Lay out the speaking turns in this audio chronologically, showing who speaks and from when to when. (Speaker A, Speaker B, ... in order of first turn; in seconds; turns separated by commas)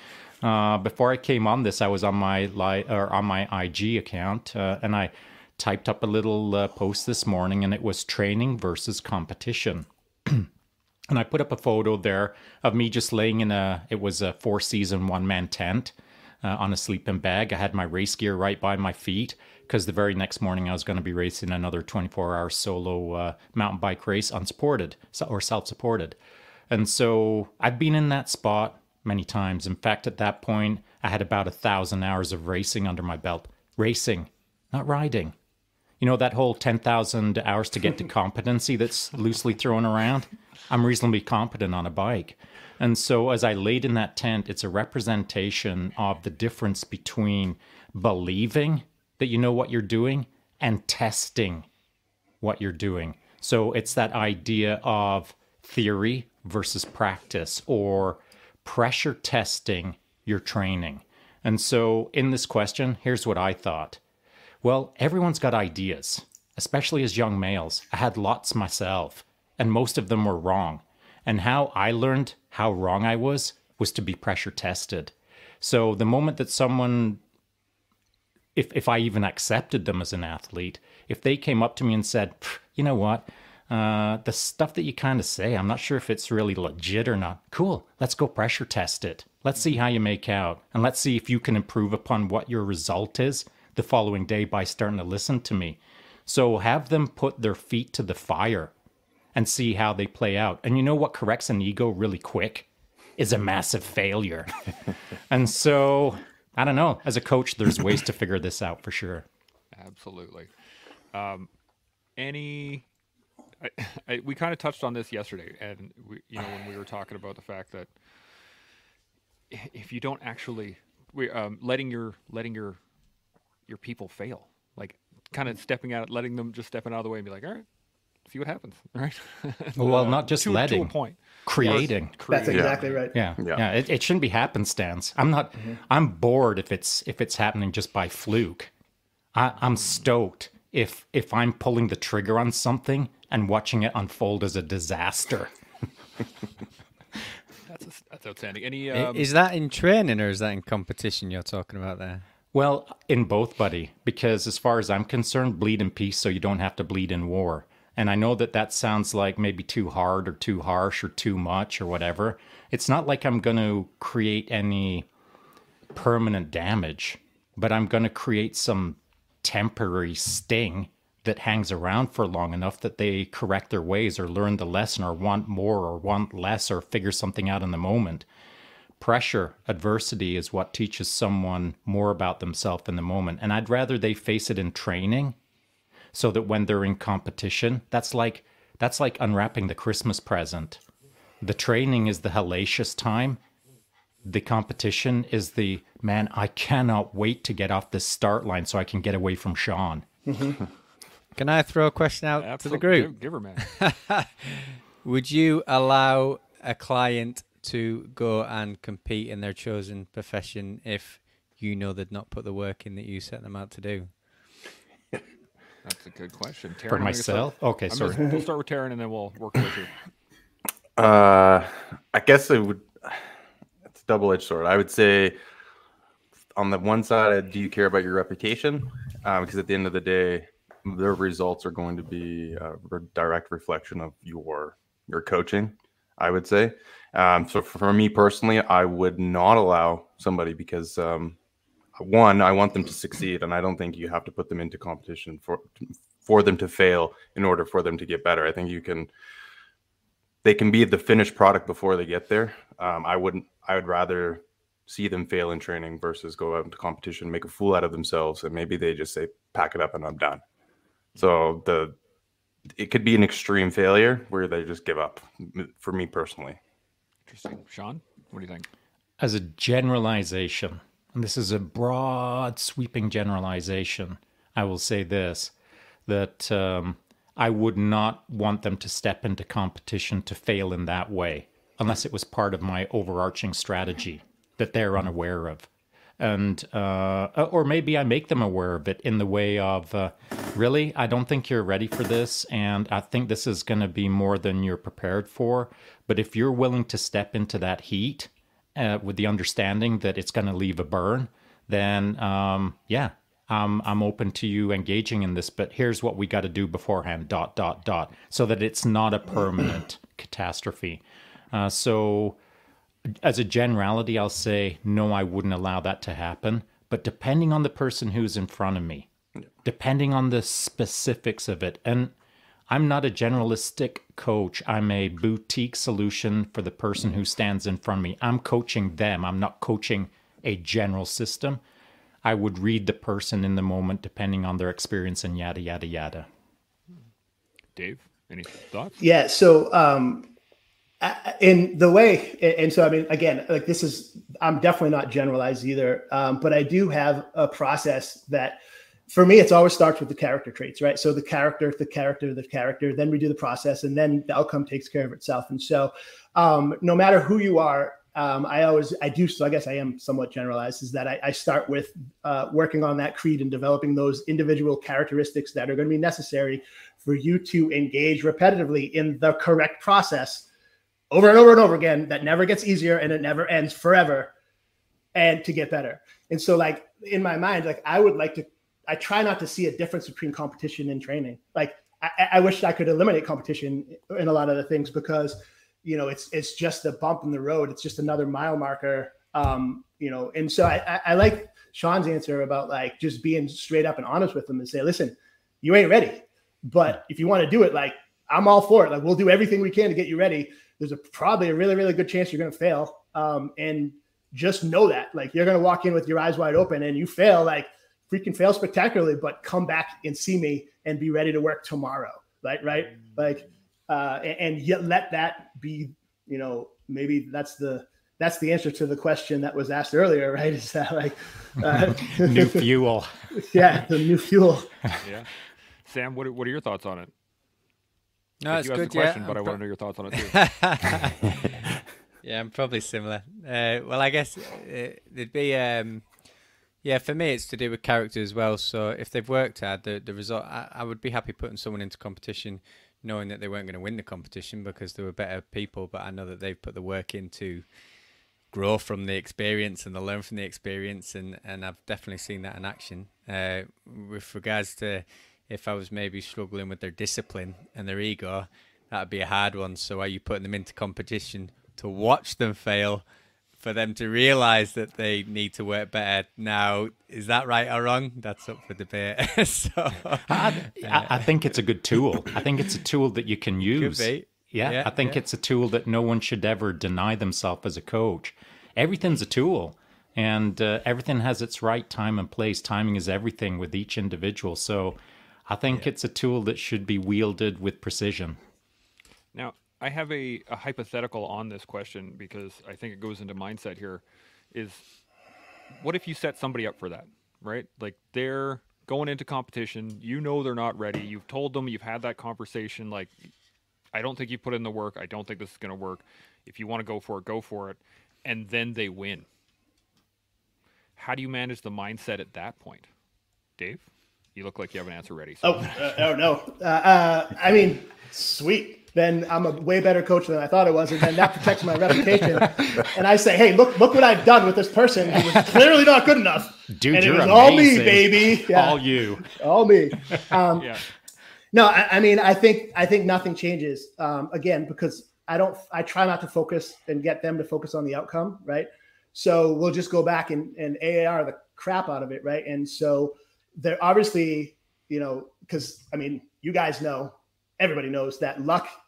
Speaker A: 0.4-10.5, Speaker A: 11.1-26.2, Speaker A: 26.7-35.3, Speaker A: 36.0-51.7, Speaker A: 52.4-64.0, Speaker A: 64.6-77.2, Speaker A: 78.5-98.7, Speaker A: 99.3-104.5, Speaker A: 105.3-109.2, Speaker B: 109.7-110.5, Speaker B: 111.1-111.5, Speaker B: 112.2-112.8, Speaker B: 113.6-117.9, Speaker B: 119.5-122.8, Speaker B: 123.7-127.7, Speaker B: 128.2-133.0, Speaker A: 129.8-132.2, Speaker C: 132.3-133.2, Speaker D: 132.5-132.8, Speaker A: 133.1-138.7, Speaker D: 133.3-133.6, Speaker A: 139.3-145.5, Speaker B: 147.7-149.3, Speaker E: 148.9-152.2, Speaker A: 152.5-165.1, Speaker A: 165.9-178.2, Speaker A: 179.0-185.4, Speaker A: 186.1-190.8, Speaker A: 191.4-193.4, Speaker A: 194.2-200.1, Speaker C: 200.3-200.6, Speaker E: 201.3-214.2, Speaker B: 202.4-203.6, Speaker B: 215.8-219.9, Speaker A: 216.9-218.3, Speaker D: 221.0-223.3, Speaker D: 223.9-225.3, Speaker D: 226.6-241.4, Speaker D: 242.0-249.1, Speaker D: 250.4-260.4, Speaker D: 261.2-261.9, Speaker D: 262.8-266.6, Speaker B: 267.3-268.7, Speaker A: 269.2-275.5, Speaker A: 276.1-285.7, Speaker A: 286.2-312.4, Speaker A: 313.1-319.1, Speaker A: 319.6-322.1, Speaker A: 322.7-331.6, Speaker A: 332.2-336.3, Speaker B: 337.8-339.0, Speaker C: 339.0-340.3, Speaker C: 341.0-348.6, Speaker C: 349.1-370.4, Speaker C: 371.1-374.3, Speaker C: 375.1-422.6, Speaker A: 421.7-423.3, Speaker C: 423.3-424.9, Speaker B: 425.0-427.1, Speaker E: 428.4-429.6, Speaker B: 428.5-430.4, Speaker E: 430.1-431.5, Speaker E: 432.2-447.6, Speaker E: 448.5-463.0, Speaker E: 463.6-471.3, Speaker A: 470.3-488.4, Speaker E: 473.7-475.2, Speaker B: 489.3-494.9, Speaker B: 495.8-503.1, Speaker B: 503.9-509.2, Speaker B: 511.0-512.9, Speaker B: 513.6-516.0, Speaker C: 515.4-530.7, Speaker A: 526.7-529.3, Speaker B: 530.5-530.8, Speaker C: 531.5-548.7